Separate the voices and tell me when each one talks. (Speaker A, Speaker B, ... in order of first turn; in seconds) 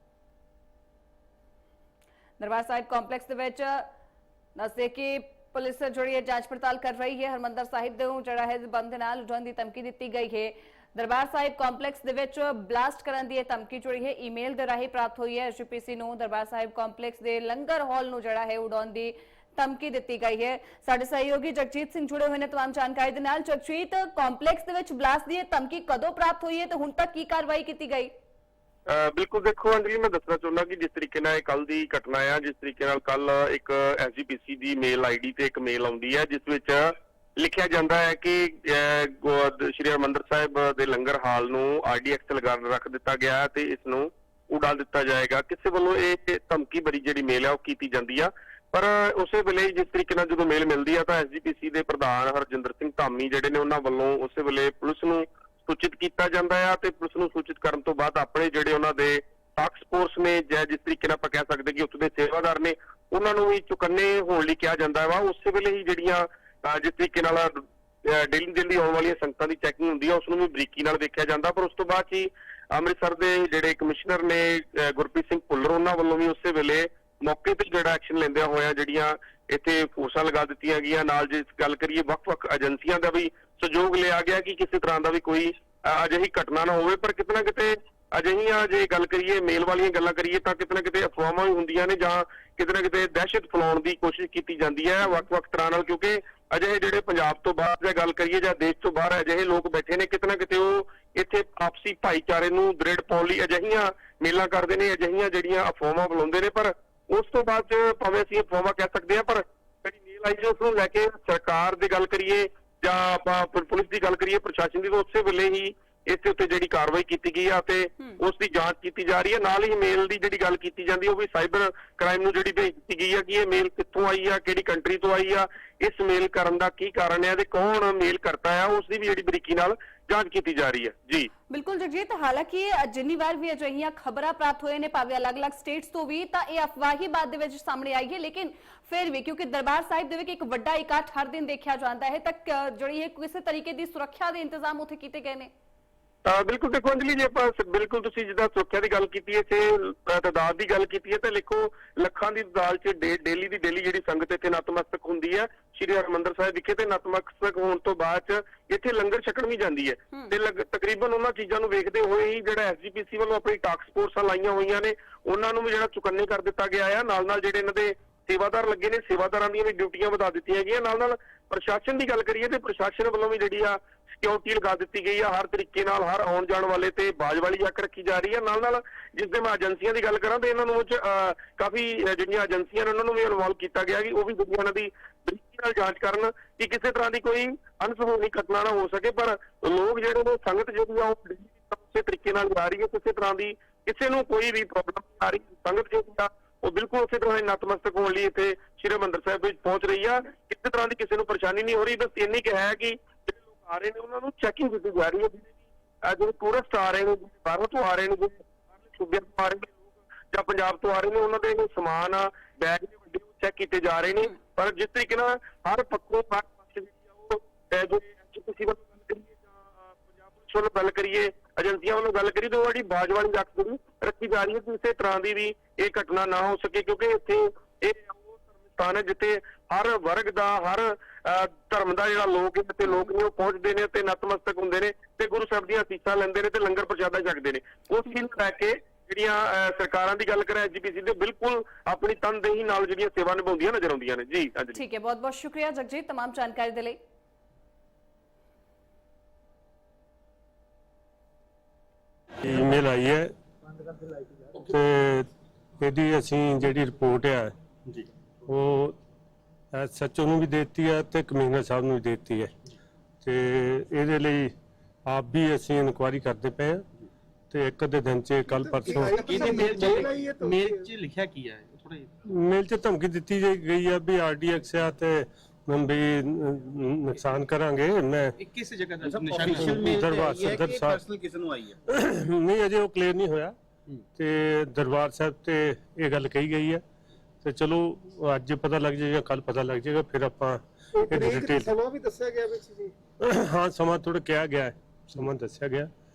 Speaker A: 2.4-3.9, 4.5-28.1, 131.5-145.5, 244.7-247.0
Speaker B: 28.9-131.3, 146.2-205.5, 206.0-209.8, 210.3-244.8
Speaker C: 252.4-253.3, 254.5-255.3, 255.8-257.5, 258.5-259.0, 259.7-262.5, 263.2-264.5, 265.1-266.8, 267.5-269.3, 272.2-278.3, 279.5-281.0, 281.9-283.5, 284.1-286.8, 287.4-291.7, 293.2-295.9
Speaker D: 268.6-270.9, 290.9-292.9
Speaker E: 269.2-272.1, 278.4-279.8
Speaker F: 269.4-270.1, 279.0-281.8